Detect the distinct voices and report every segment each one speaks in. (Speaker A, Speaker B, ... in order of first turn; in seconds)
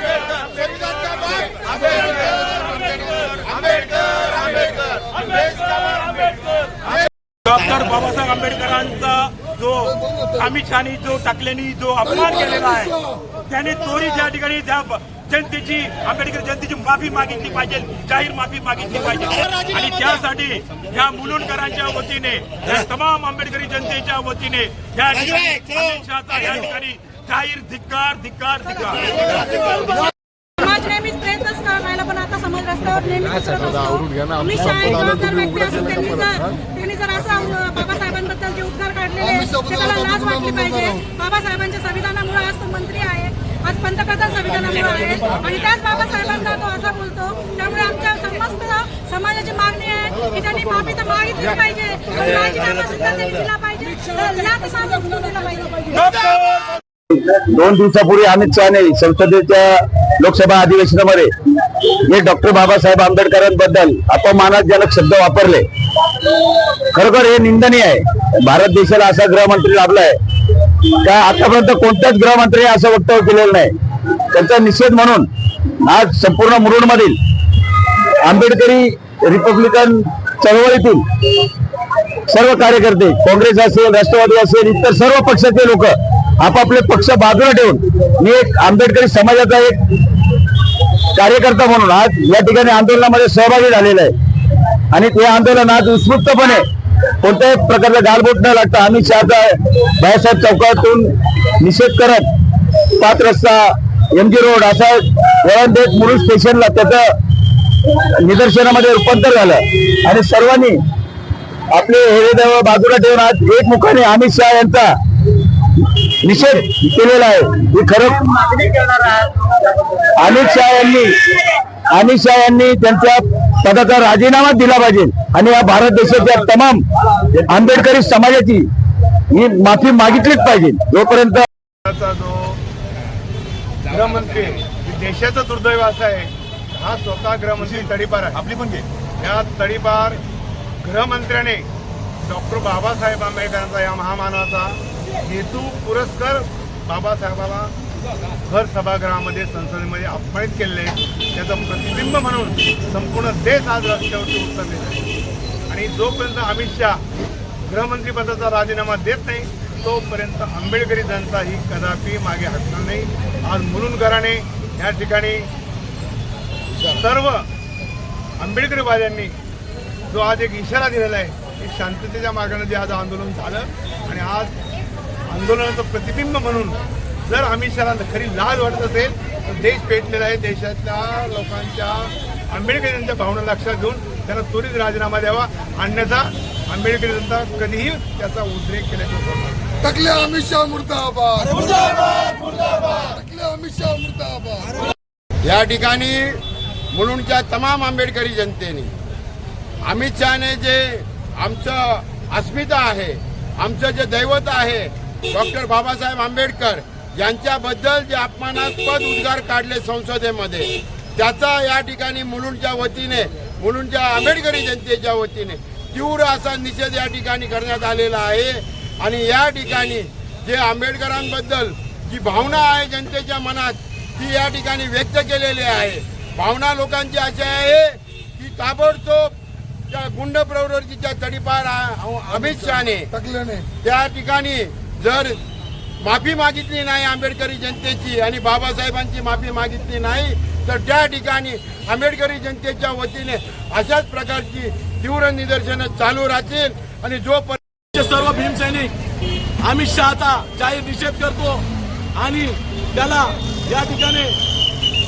Speaker A: 0.3-2.4, 3.3-3.8, 195.4-196.4, 196.9-198.9, 199.8-229.3, 229.9-233.1, 233.8-235.4, 236.0-247.6
Speaker B: 7.5-12.9, 13.5-29.5
Speaker C: 30.6-56.4
Speaker D: 57.1-73.7, 74.3-81.5, 82.3-96.6, 97.2-101.1, 101.6-103.6, 104.2-107.0, 107.7-110.8, 111.7-119.3, 120.2-126.8, 127.3-128.7, 129.3-131.5
Speaker E: 131.9-132.5, 133.9-138.3, 139.2-140.2, 140.8-141.6, 142.3-144.7, 145.3-147.7, 148.5-155.0, 155.7-157.0, 157.7-165.5, 167.0-167.4, 168.4-169.3, 170.1-174.5, 175.3-189.6
Speaker F: 189.8-194.7, 233.2-233.7
Speaker G: 247.9-248.9, 249.6-251.6, 252.2-254.4